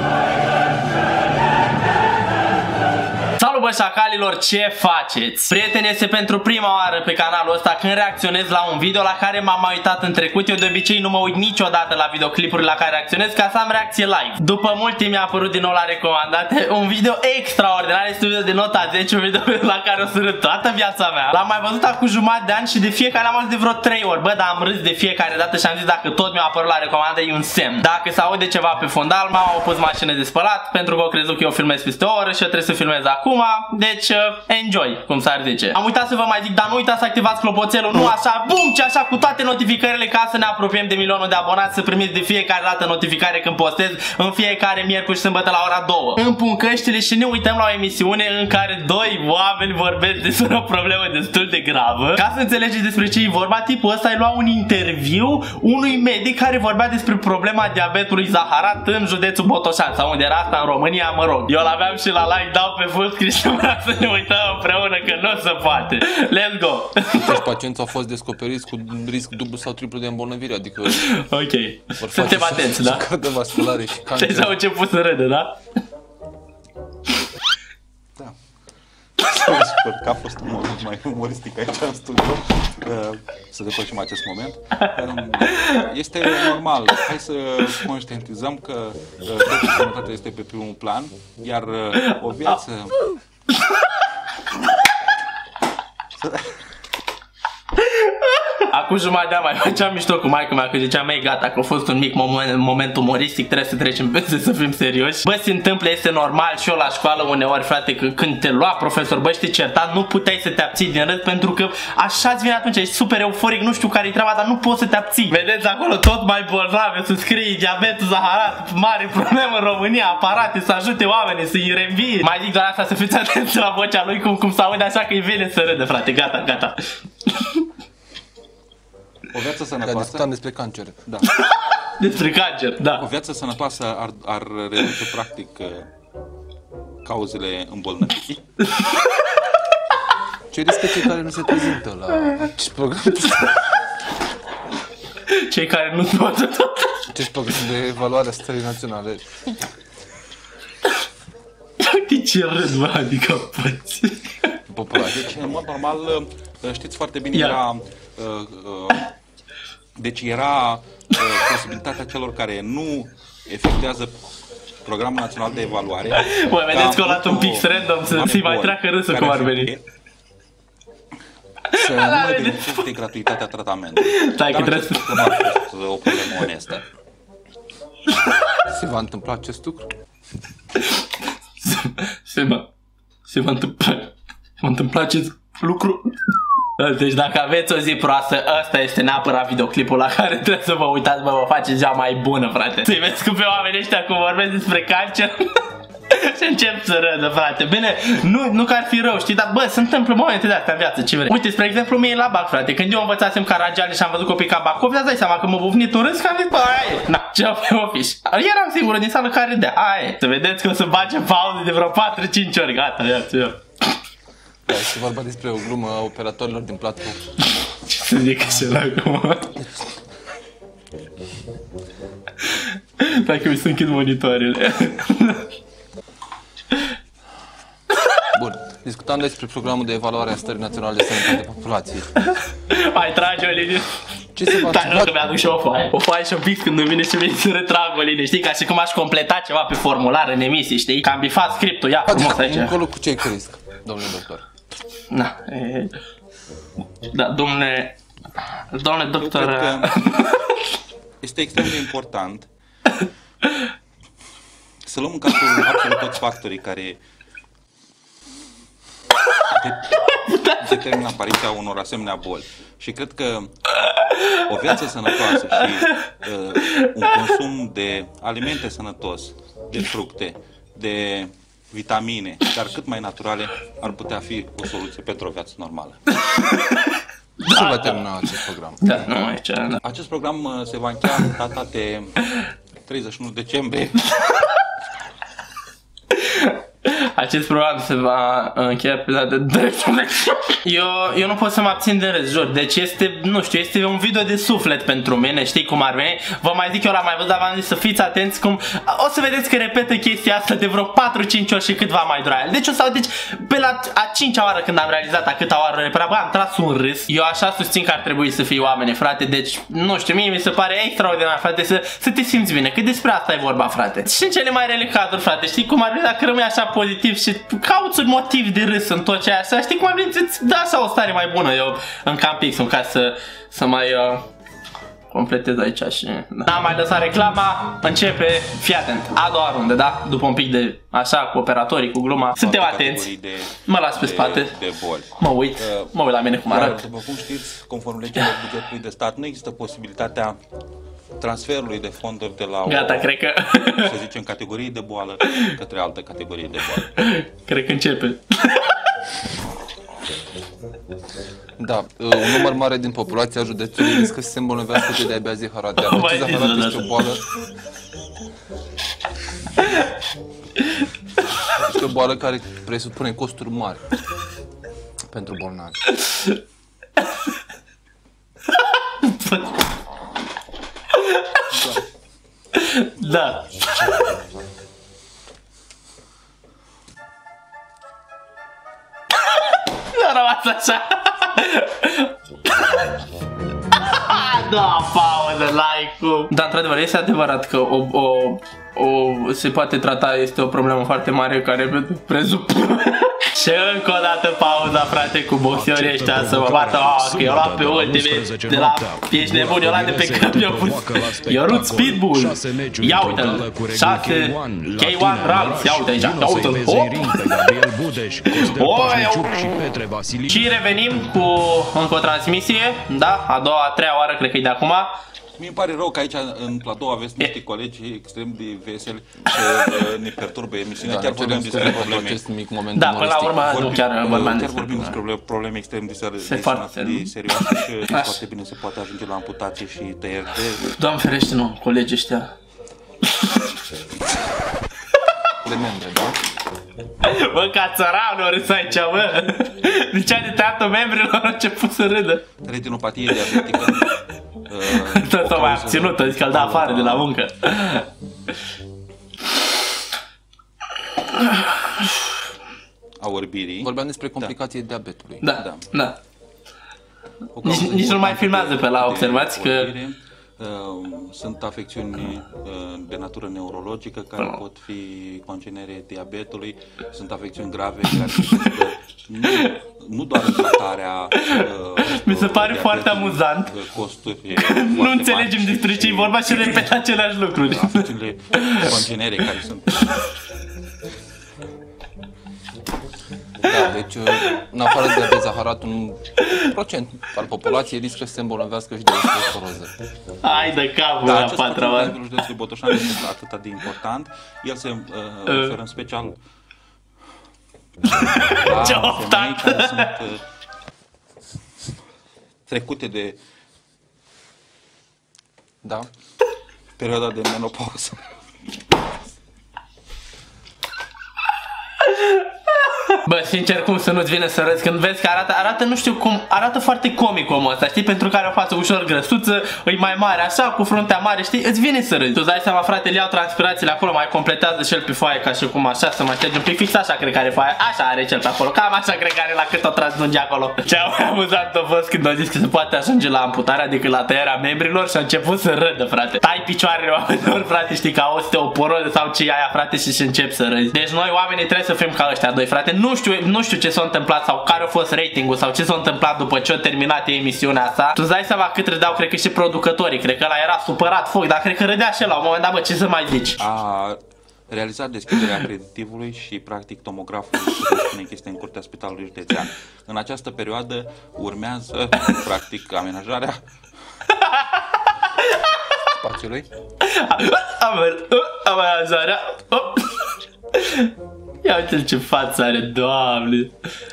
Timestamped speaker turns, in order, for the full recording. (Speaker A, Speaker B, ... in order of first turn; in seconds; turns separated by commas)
Speaker A: 3.4-67.4, Speaker B: 67.1-71.1, Speaker A: 70.8-73.0, Speaker B: 72.0-74.5, Speaker A: 74.1-75.5, Speaker C: 79.2-93.0, Speaker A: 85.5-85.8, Speaker A: 98.0-127.6, Speaker C: 129.3-130.2, Speaker B: 129.8-131.1, Speaker A: 131.3-133.0, Speaker C: 133.0-135.9, Speaker C: 137.0-138.4, Speaker B: 140.5-143.5, Speaker A: 145.3-147.1, Speaker B: 147.1-149.4, Speaker A: 151.8-154.6, Speaker B: 154.7-155.3, Speaker C: 154.9-159.1, Speaker C: 160.0-164.1, Speaker C: 164.8-169.8, Speaker A: 166.1-169.7, Speaker C: 171.7-176.8, Speaker A: 171.7-172.7, Speaker A: 174.0-175.6, Speaker B: 178.7-179.9, Speaker A: 180.8-181.1, Speaker A: 181.6-182.7, Speaker A: 183.3-186.2, Speaker A: 186.8-213.6, Speaker B: 214.7-217.2, Speaker A: 217.9-219.6, Speaker A: 222.6-225.5, Speaker B: 228.3-232.1, Speaker A: 232.3-242.8, Speaker B: 234.3-235.1, Speaker B: 242.1-244.4, Speaker A: 245.1-245.9, Speaker A: 247.1-248.0, Speaker A: 248.7-250.3, Speaker C: 249.2-250.0, Speaker C: 251.2-252.5, Speaker C: 254.8-257.0, Speaker C: 259.4-263.6, Speaker A: 260.1-260.6, Speaker A: 263.9-264.4, Speaker C: 264.3-276.0, Speaker A: 265.5-265.9, Speaker A: 276.3-278.3, Speaker B: 277.4-278.8, Speaker A: 278.8-279.8, Speaker C: 279.8-282.3, Speaker C: 282.8-284.1, Speaker A: 286.1-324.2, Speaker A: 325.1-333.1, Speaker C: 332.3-335.9, Speaker A: 333.6-334.5, Speaker A: 335.2-336.8, Speaker C: 336.5-340.4, Speaker C: 341.2-343.1, Speaker A: 342.6-343.9, Speaker C: 343.7-346.9, Speaker A: 345.2-345.5, Speaker A: 346.9-348.8, Speaker B: 351.6-357.2, Speaker A: 355.8-357.1, Speaker B: 361.6-363.9, Speaker B: 365.1-365.8, Speaker A: 366.0-366.3, Speaker A: 368.7-369.5, Speaker A: 370.9-371.5, Speaker A: 372.5-373.5, Speaker A: 379.7-383.0, Speaker A: 383.7-407.5, Speaker D: 395.5-410.5, Speaker A: 408.3-409.5, Speaker A: 410.3-414.9, Speaker C: 415.4-422.2, Speaker B: 420.8-423.7, Speaker A: 422.7-425.0, Speaker C: 423.4-430.7, Speaker A: 426.2-428.2, Speaker A: 430.4-432.3, Speaker B: 435.4-436.2, Speaker A: 437.0-442.2, Speaker C: 442.4-443.9, Speaker C: 444.4-447.1, Speaker A: 444.6-447.9, Speaker A: 451.2-451.8, Speaker C: 453.0-454.3, Speaker B: 453.6-455.2, Speaker A: 455.2-455.9, Speaker C: 455.3-455.7, Speaker C: 457.4-476.7, Speaker A: 457.4-459.7, Speaker A: 468.2-468.5, Speaker A: 471.1-473.5, Speaker A: 474.4-478.8, Speaker C: 477.4-479.9, Speaker B: 483.4-489.7, Speaker A: 490.2-492.0, Speaker C: 491.0-496.2, Speaker A: 495.3-495.6, Speaker A: 497.9-499.9, Speaker C: 498.3-500.2, Speaker C: 502.5-503.2, Speaker B: 505.6-505.9, Speaker C: 506.8-508.0, Speaker A: 511.8-553.4, Speaker C: 553.4-563.4, Speaker A: 564.1-564.6, Speaker A: 565.2-565.5, Speaker B: 565.9-566.5, Speaker A: 566.8-570.9, Speaker A: 571.4-573.5